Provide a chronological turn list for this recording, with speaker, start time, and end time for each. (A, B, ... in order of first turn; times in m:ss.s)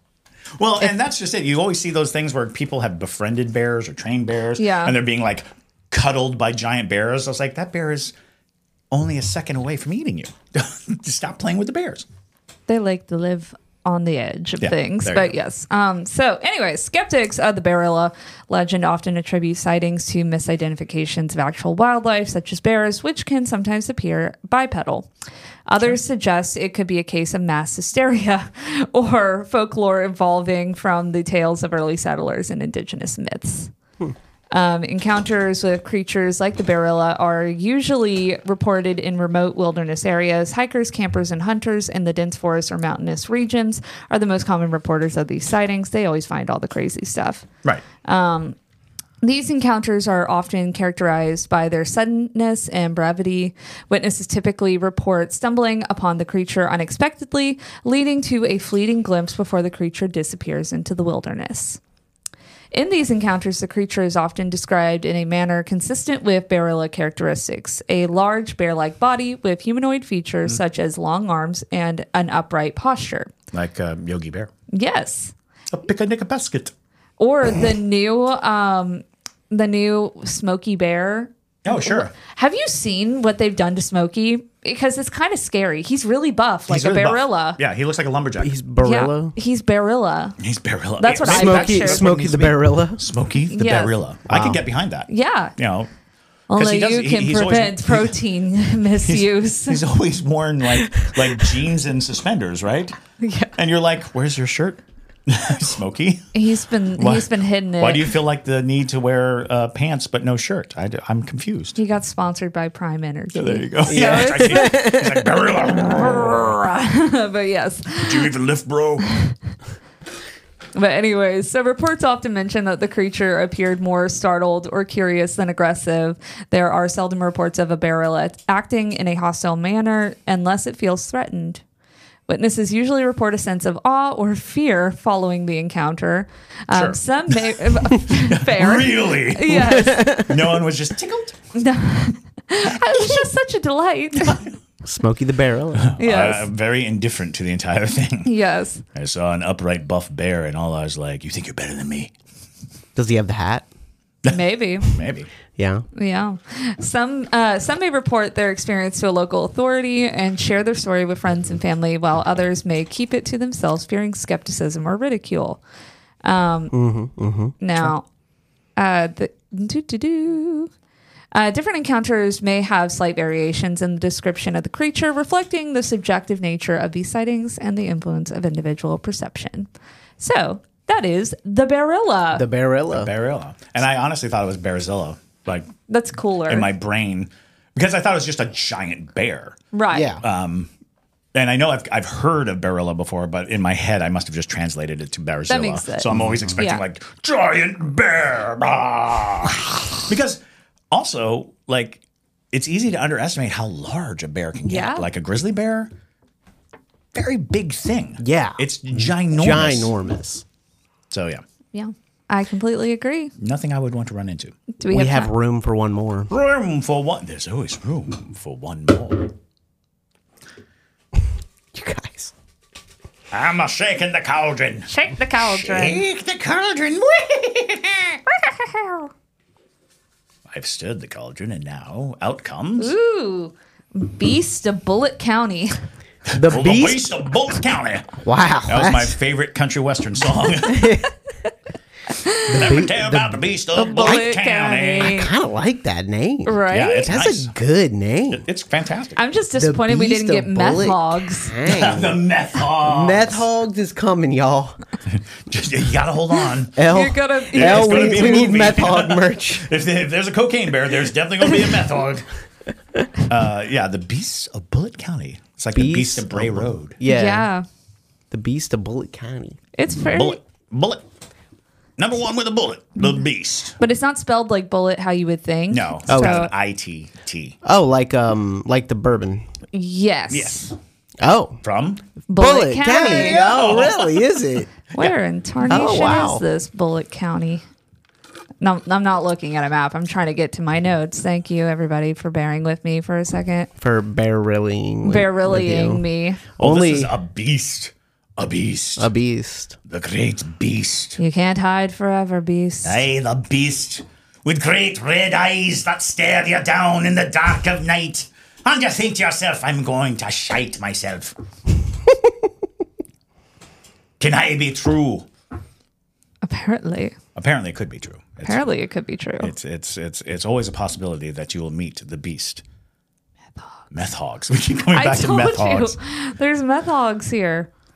0:00.6-0:08.1 A
0:04.6-0:05.0 B
0:08.9-0:12.1 A
0:12.7-0:25.1 B
0:14.6-0:15.4 A
0:25.7-0:33.7 B
0:34.5-0:47.5 B
0:48.0-0:48.6 B
0:49.2-1:01.8 B
1:02.7-1:13.3 B
1:13.5-1:14.5 A
1:14.7-1:15.3 B
1:15.7-1:16.7 A
1:17.2-1:27.6 B
1:21.6-1:22.1 A
1:26.7-1:28.6 A
1:28.4-1:29.4 C
1:28.8-1:30.4 B
1:30.4-1:35.9 A
1:31.0-1:32.0 B
1:31.2-1:33.0 C
1:33.5-1:34.0 B
1:34.3-1:34.6 C
1:35.1-1:35.5 B
1:36.5-1:39.8 B
1:36.5-1:38.2 A
1:39.1-1:43.0 A
1:43.2-1:43.5 B
1:43.6-1:46.3 A
1:46.3-1:48.1 B
1:47.0-1:51.8 A
1:51.8-1:54.9 B
1:53.3-1:56.6 A
1:53.9-1:55.4 C
1:55.8-1:58.3 B
1:58.0-1:59.1 A
1:59.1-1:59.4 B
2:00.8-2:11.6 B
2:12.3-2:20.2 B
2:16.7-2:21.4 A
2:19.5-2:20.4 C
2:21.6-2:24.4 B
2:24.8-2:25.9 C
2:25.8-2:28.3 A
2:26.0-2:26.5 B
2:28.2-2:28.8 B
2:29.0-2:32.1 A
2:33.0-2:33.7 C
2:34.2-2:35.3 A
2:34.3-2:34.9 B
2:35.6-2:35.8 C
2:36.0-2:45.6 B
2:46.2-2:46.7 B
2:46.7-2:47.6 C
2:47.6-2:48.1 B
2:48.8-2:50.7 B
2:51.3-2:59.7 B
3:00.2-3:02.5 B
3:02.4-3:03.1 C
3:02.9-3:05.7 A
3:05.9-3:06.7 B
3:06.5-3:09.6 A
3:09.7-3:10.1 B
3:09.9-3:10.2 C
3:10.2-3:10.7 A
3:11.4-3:22.0 A
3:15.5-3:16.8 B
3:22.5-3:25.9 A
3:24.7-3:25.1 B
3:27.1-3:29.9 A
3:28.2-3:30.4 C
3:31.1-3:31.4 A
3:31.7-3:33.3 B
3:33.4-3:34.5 A
3:34.7-3:35.3 B
3:34.9-3:36.3 C
3:36.3-3:39.4 A
3:41.2-3:42.3 C
3:43.3-3:48.2 A
3:44.9-3:46.0 B
3:48.4-3:49.1 B
3:50.5-3:52.9 A
3:52.8-3:55.7 B
3:56.3-4:01.1 A
3:56.3-3:57.1 C
3:58.2-3:59.2 C
4:00.6-4:01.1 C
4:02.1-4:02.7 B
4:02.5-4:05.2 A
4:02.5-4:04.4 C
4:03.8-4:05.3 B
4:05.0-4:08.4 C
4:06.5-4:07.1 B
4:06.7-4:07.5 A
4:08.3-4:09.2 A
4:09.2-4:11.5 B
4:09.6-4:12.2 C
4:11.6-4:13.4 A
4:12.8-4:14.8 C
4:15.1-4:16.9 A
4:16.8-4:19.7 C
4:16.9-4:18.5 B
4:17.5-4:22.3 A
4:23.3-4:27.0 A
4:25.7-4:27.5 C
4:27.1-4:27.6 B
4:28.3-4:29.6 C
4:29.8-4:30.4 B
4:29.9-4:31.0 A
4:32.0-4:33.8 A
4:33.8-4:36.5 B
4:35.7-4:37.6 A
4:36.1-4:36.4 C
4:37.6-4:39.4 C
4:39.7-4:40.6 B
4:40.3-4:40.8 A
4:41.2-4:41.6 C
4:41.6-4:42.0 A
4:42.3-4:43.5 B
4:42.4-4:44.7 C
4:42.9-4:44.2 A
4:44.9-4:47.6 B
4:45.7-4:46.4 C
4:48.6-4:53.7 B
4:53.8-4:56.0 C
4:55.0-4:56.4 B
4:56.6-4:57.1 C
4:56.6-4:59.1 A
4:59.0-4:59.8 C
4:59.9-5:01.2 A
5:01.2-5:03.0 B
5:02.8-5:11.4 A
5:14.2-5:15.3 A
5:16.4-5:17.2 B
5:17.4-5:18.6 A
5:18.4-5:19.5 B
5:19.4-5:22.6 A
5:23.9-5:26.0 A
5:24.9-5:27.7 B